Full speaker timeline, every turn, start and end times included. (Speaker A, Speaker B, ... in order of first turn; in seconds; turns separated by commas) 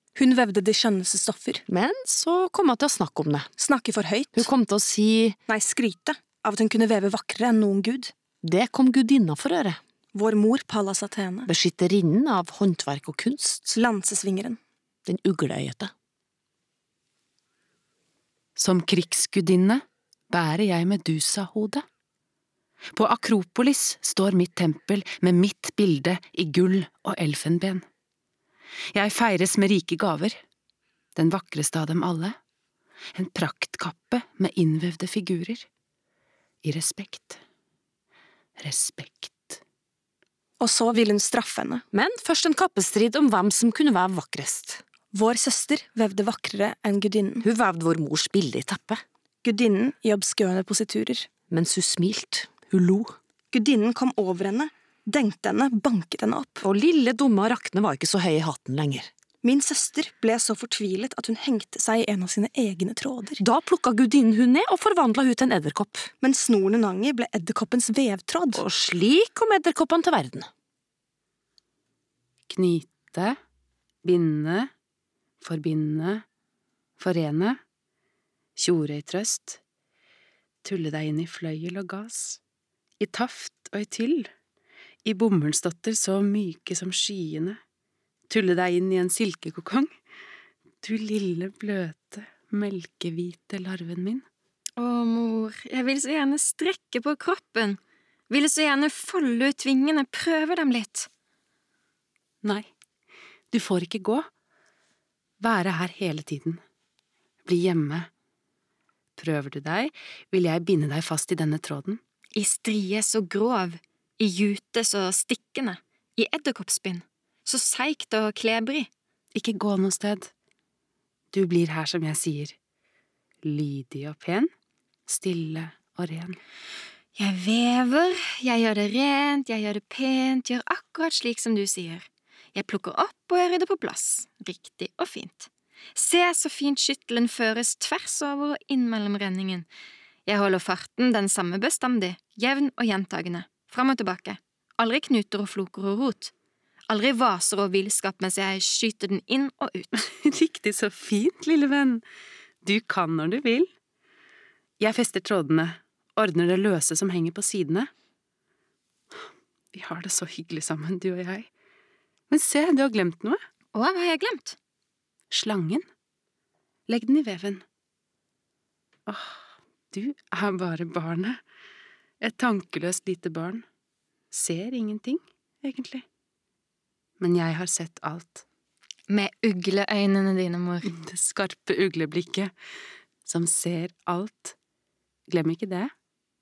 Speaker A: 0.1-1.6, Speaker B: 1.7-3.5, Speaker A: 3.6-4.5, Speaker B: 4.4-5.4, Speaker A: 5.5-8.1, Speaker B: 8.4-9.8, Speaker A: 10.1-11.5, Speaker B: 11.5-13.8, Speaker A: 13.8-14.6, Speaker B: 15.1-15.9, Speaker C: 18.6-21.9, Speaker C: 22.9-27.8, Speaker C: 28.9-30.4, Speaker C: 31.2-32.4, Speaker C: 33.1-35.7, Speaker C: 36.6-37.4, Speaker C: 38.6-39.6, Speaker A: 40.6-41.9, Speaker B: 41.9-44.8, Speaker A: 45.1-47.5, Speaker B: 47.4-49.0, Speaker A: 49.4-51.3, Speaker B: 51.5-53.2, Speaker A: 53.5-56.6, Speaker B: 56.6-59.1, Speaker A: 59.4-63.4, Speaker B: 63.4-66.1, Speaker A: 66.2-68.6, Speaker B: 68.5-70.5, Speaker C: 72.5-73.4, Speaker C: 74.0-74.7, Speaker C: 75.4-76.2, Speaker C: 77.0-77.6, Speaker C: 78.6-79.6, Speaker C: 80.6-82.4, Speaker C: 83.0-84.3, Speaker C: 85.0-87.6, Speaker C: 88.3-89.9, Speaker C: 90.8-94.2, Speaker D: 94.8-101.1, Speaker C: 102.4-102.7, Speaker C: 103.5-104.3, Speaker C: 105.4-106.6, Speaker C: 107.5-108.1, Speaker C: 109.2-112.0, Speaker D: 112.3-118.9, Speaker C: 119.3-120.3, Speaker C: 121.3-122.6, Speaker C: 123.4-124.5, Speaker C: 125.1-126.4, Speaker D: 127.2-139.7, Speaker D: 140.3-146.3, Speaker D: 146.9-150.0, Speaker C: 150.0-152.0, Speaker C: 152.6-153.7, Speaker C: 154.8-157.9, Speaker C: 159.7-161.5, Speaker C: 162.3-163.4, Speaker D: 163.7-164.6, Speaker C: 165.3-165.9, Speaker C: 166.9-167.6, Speaker C: 169.1-171.4, Speaker C: 172.2-173.7, Speaker C: 174.3-176.0, Speaker C: 177.2-178.4, Speaker D: 179.1-180.9, Speaker C: 180.9-182.5, Speaker C: 183.2-184.6, Speaker C: 185.3-185.9